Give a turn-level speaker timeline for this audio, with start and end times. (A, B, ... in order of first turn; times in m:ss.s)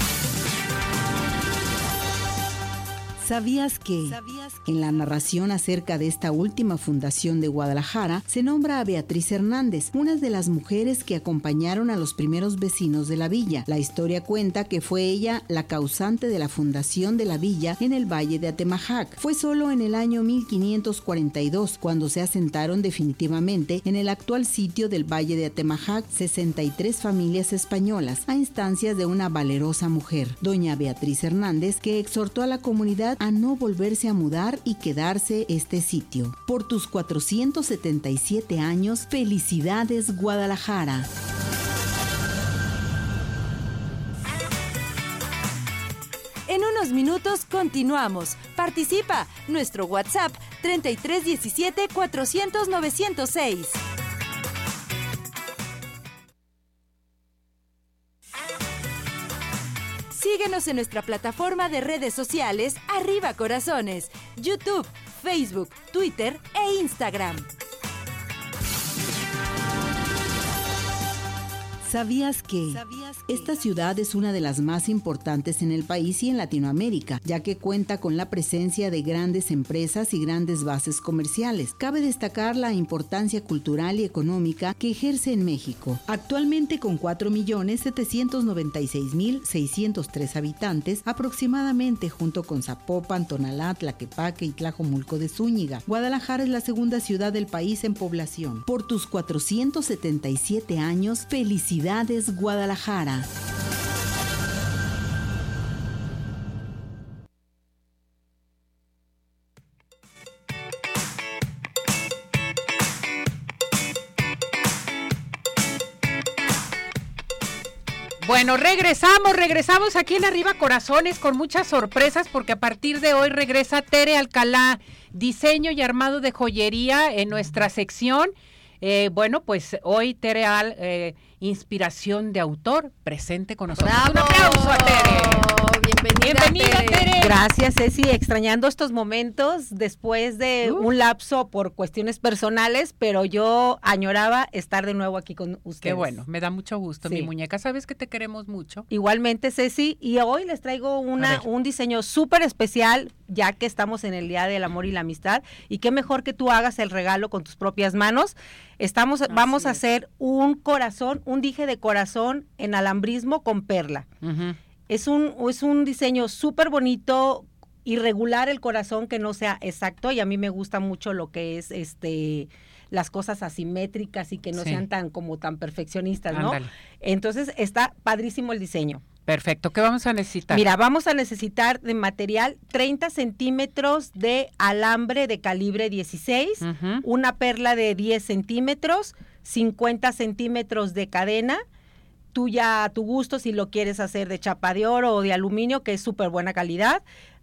0:03.2-0:41.1 A
0:04.1-0:04.6 B
0:46.5-0:53.8 B
1:00.1-1:07.5 B
1:11.8-1:43.3 A
1:12.7-1:13.6 B
1:58.2-2:15.6 C
2:13.8-2:17.2 D
2:16.2-2:17.4 C
2:17.2-2:26.2 E
2:25.8-2:28.9 C
2:28.9-2:44.1 E
2:31.2-2:31.4 C
2:39.3-2:39.8 D
2:44.2-2:44.6 C
2:44.9-2:59.0 E
2:54.6-2:54.9 C
2:56.3-2:56.7 C
2:59.3-3:00.6 C
3:00.5-3:11.6 E
3:06.6-3:07.1 C
3:12.3-3:17.0 E